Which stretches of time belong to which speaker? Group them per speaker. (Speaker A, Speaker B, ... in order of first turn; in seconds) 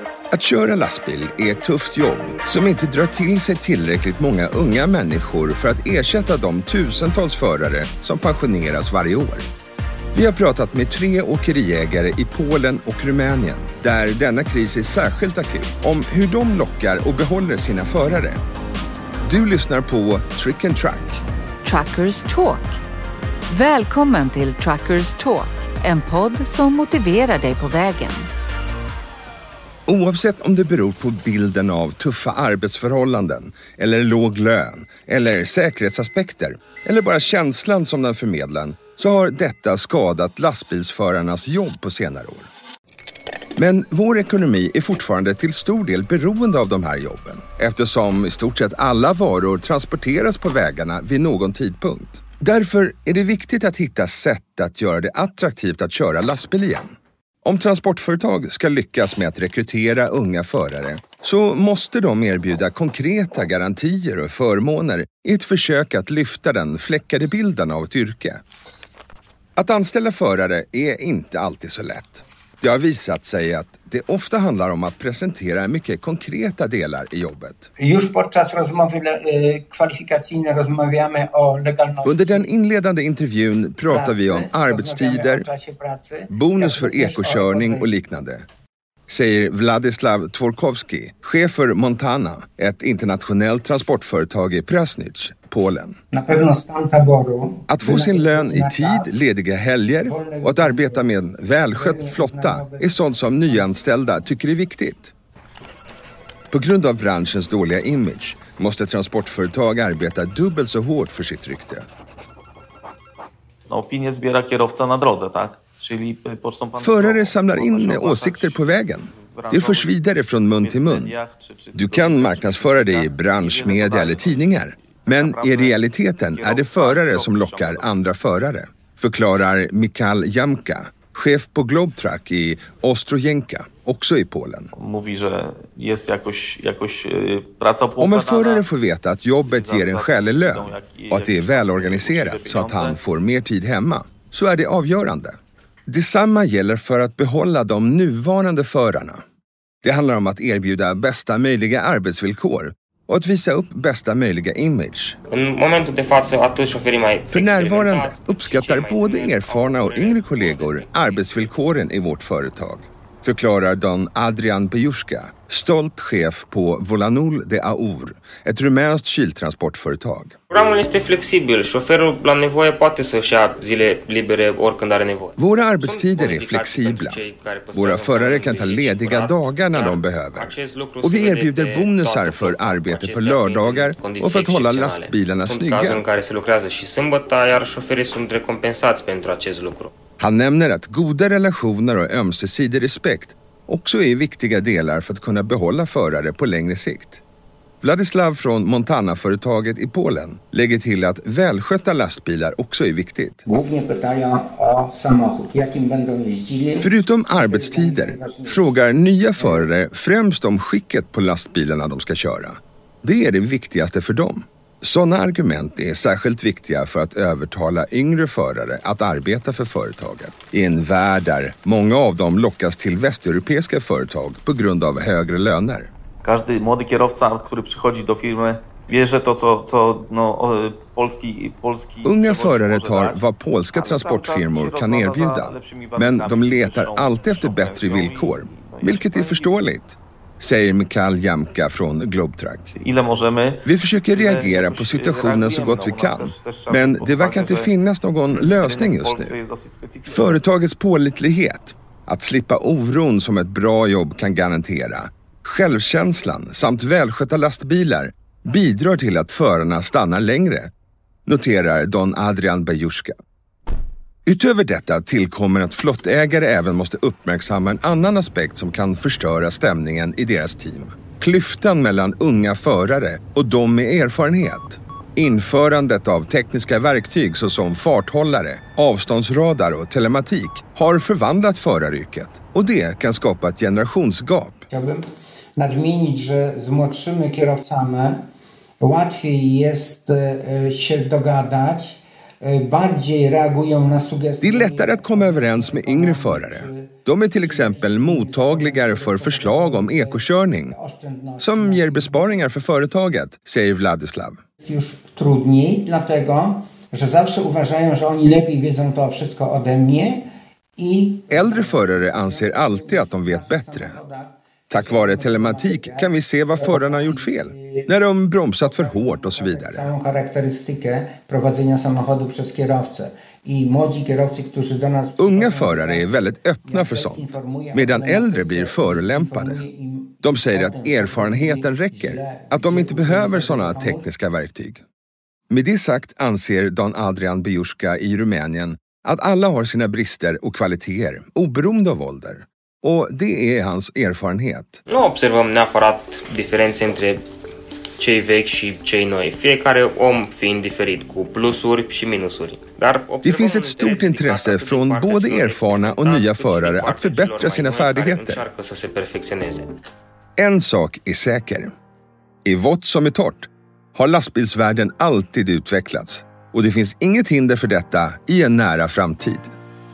Speaker A: 0.3-9.5, 10.1-18.4, 19.2-21.2, 29.9-42.5, 43.6-68.4, 69.6-77.7, 82.0-85.5, 86.3-88.5, 89.1-96.0, 97.7-105.1, 106.5-111.9, 116.8-121.1, 121.7-134.7, 138.0-145.4, 145.9-149.2, 149.8-155.2, 157.3-170.4, 175.4-177.2, 177.7-186.0, 190.2-197.2, 197.8-203.4, 206.8-225.9, 232.0-242.7, 243.6-249.3, 250.1-260.7, 261.2-263.2, 264.2-284.6, 294.4-300.8, 301.4-304.4, 311.3-314.0, 314.7-319.9, 325.2-329.6, 330.2-334.8, 335.5-344.8, 353.2-358.4, 360.4-361.7, 362.4-369.5
Speaker B: 21.6-22.6, 23.5-28.3
Speaker C: 77.8-82.5, 83.8-87.9, 96.1-99.2, 100.0-101.1, 101.7-103.7, 203.4-208.7, 209.4-209.7, 284.7-285.0, 285.6-288.2, 288.8-302.4, 304.6-310.2, 310.8-317.9, 318.6-334.1
Speaker D: 113.7-127.9, 134.8-138.7, 139.3-143.0, 226.2-239.6, 242.7-247.8, 248.3-250.4
Speaker E: 155.3-161.6, 170.5-189.9, 344.9-347.2, 348.0-359.7